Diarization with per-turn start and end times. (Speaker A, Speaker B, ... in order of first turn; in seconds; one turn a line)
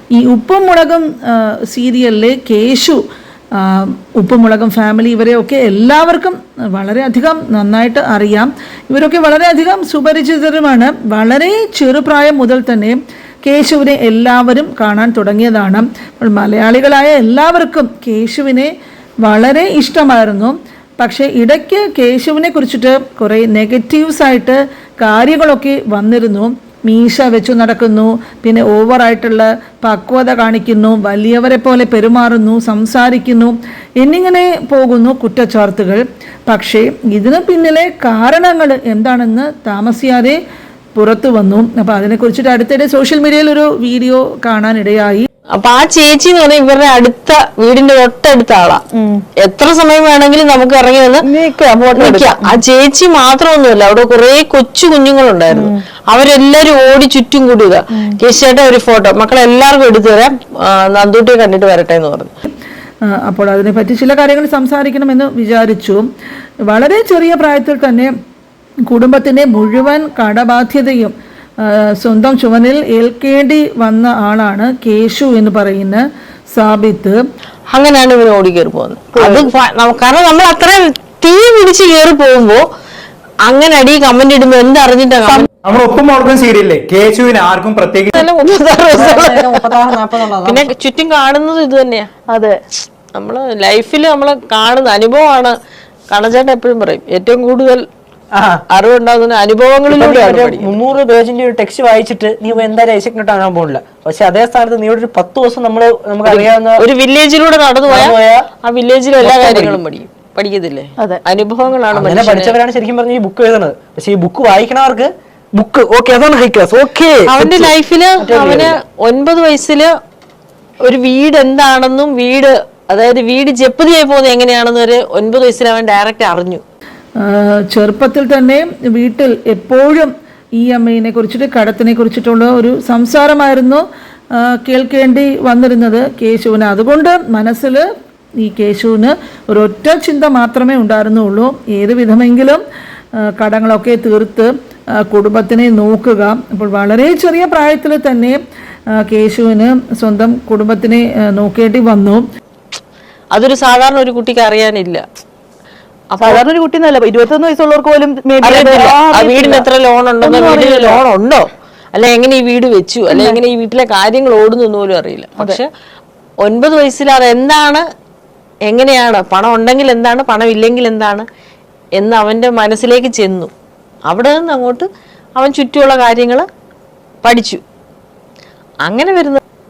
Speaker A: 0.1-3.0
Speaker A: 3.5-18.7
Speaker A: 19.2-40.4
Speaker A: 40.9-45.3
Speaker B: 45.5-48.8
Speaker C: 48.9-49.2
Speaker B: 49.4-51.2
Speaker C: 51.2-52.6
Speaker B: 51.9-62.3
Speaker C: 55.5-55.8
Speaker A: 63.0-66.0
Speaker A: 66.7-68.1
Speaker A: 68.9-76.0
Speaker A: 76.5-77.2
Speaker B: 77.7-82.6
Speaker C: 79.2-79.5
Speaker B: 83.5-85.5
Speaker D: 85.2-88.3
Speaker B: 88.1-89.7
Speaker E: 88.9-90.7
Speaker B: 90.4-92.1
Speaker C: 92.3-92.6
Speaker B: 93.1-95.5
Speaker B: 96.1-97.8
Speaker E: 98.3-98.6
Speaker B: 98.7-100.8
Speaker E: 99.9-106.8
Speaker B: 106.2-112.6
Speaker E: 107.9-108.5
Speaker E: 109.2-109.8
Speaker E: 111.9-118.7
Speaker B: 117.3-119.9
Speaker B: 120.9-126.6
Speaker A: 127.2-133.8
Speaker A: 134.3-137.8
Speaker A: 138.4-142.6
Speaker A: 143.2-148.4
Speaker A: 148.9-152.2
Speaker B: 153.3-155.0
Speaker B: 156.1-156.4
Speaker C: 156.2-159.6
Speaker B: 158.4-161.4
Speaker C: 160.2-161.0
Speaker B: 161.9-165.7
Speaker C: 163.1-163.4
Speaker B: 166.4-167.8
Speaker B: 168.7-171.2
Speaker B: 172.0-173.5
Speaker B: 174.1-176.4
Speaker B: 177.2-177.6
Speaker B: 178.8-179.4